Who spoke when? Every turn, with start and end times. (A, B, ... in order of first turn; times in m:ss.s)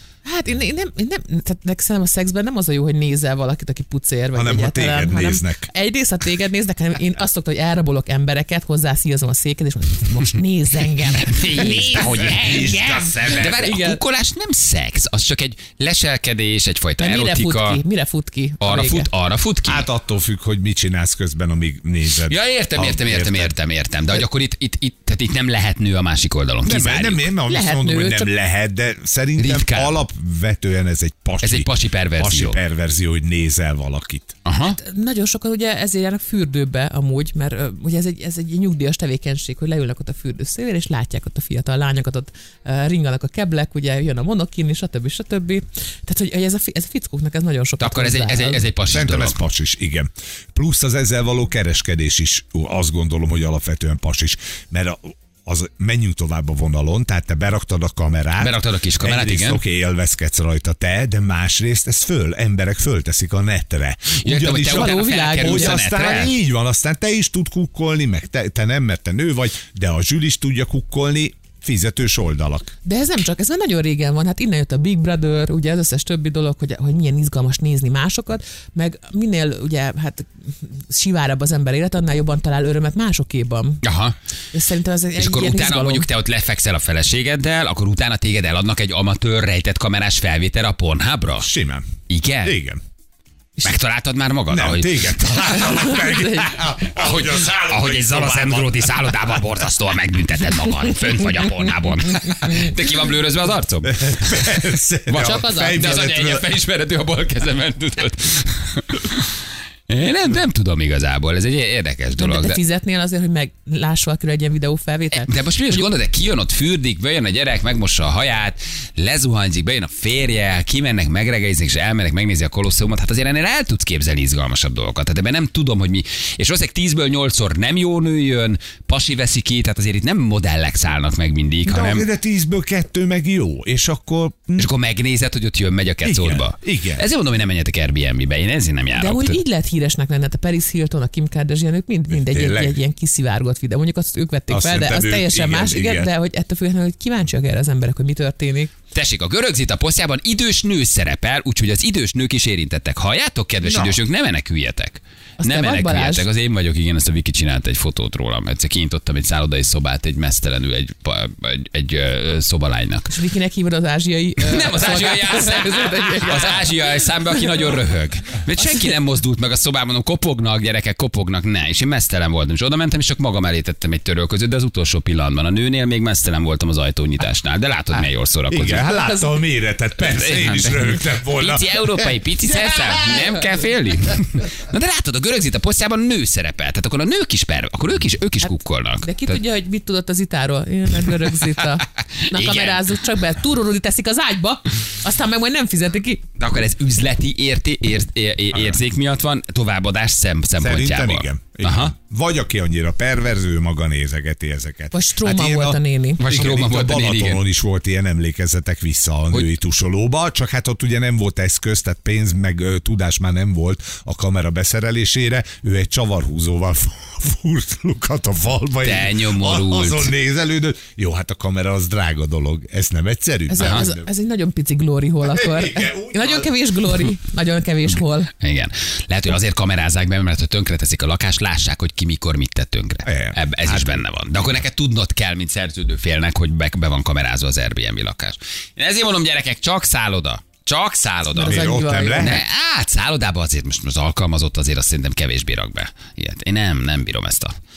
0:00.2-0:14.0 A
0:04.3-0:05.7 B
0:11.2-0:17.8 C
0:11.9-0:13.6 B
0:17.0-0:19.1 A
0:18.6-0:19.9 C
0:19.6-0:23.5 B
0:22.3-0:27.3 C
0:26.6-0:34.3 B
0:27.5-0:28.3 A
0:29.4-0:30.0 C
0:31.4-0:32.6 C
0:34.4-0:34.8 C
0:34.6-0:48.6 A
0:47.8-0:49.4 C
0:48.9-1:12.7 B
0:58.4-0:59.6 C
1:04.2-1:06.3 C
1:04.6-1:06.0 A
1:12.8-1:23.8 A
1:23.8-1:24.1 C
1:24.5-1:26.1 A
1:25.2-1:31.5 C
1:31.4-1:31.9 B
1:32.1-1:32.6 C
1:32.4-1:32.8 B
1:33.6-1:35.6 C
1:34.5-1:39.4 B
1:35.6-1:36.5 A
1:36.8-1:49.3 C
1:43.8-1:46.5 B
1:45.2-1:46.0 A
1:49.9-1:52.6 C
1:52.2-1:55.3 A
1:55.1-2:12.0 C
2:11.6-2:14.7 B
2:14.6-2:19.4 C
2:16.0-2:17.0 B
2:18.9-2:28.7 A
2:22.1-2:22.8 B
2:24.5-2:26.1 B
2:28.9-2:43.1 C
2:33.6-2:34.0 B
2:35.4-2:36.3 A
2:43.1-2:47.0 A
2:44.4-2:58.9 C
2:58.5-3:03.2 B
2:58.9-2:59.3 A
3:00.0-3:09.4 C
3:08.4-3:16.2 A
3:12.2-3:13.0 C
3:16.4-3:21.9 C
3:18.5-3:18.8 B
3:20.6-3:44.1 B
3:24.9-3:26.6 A
3:26.2-3:27.4 C
3:38.8-3:40.1 C
3:43.5-3:48.3 A
3:43.6-3:43.8 C
3:45.3-3:46.5 B
3:48.4-4:07.5 C
3:53.0-3:54.0 B
4:01.3-4:02.3 A
4:01.4-4:02.4 B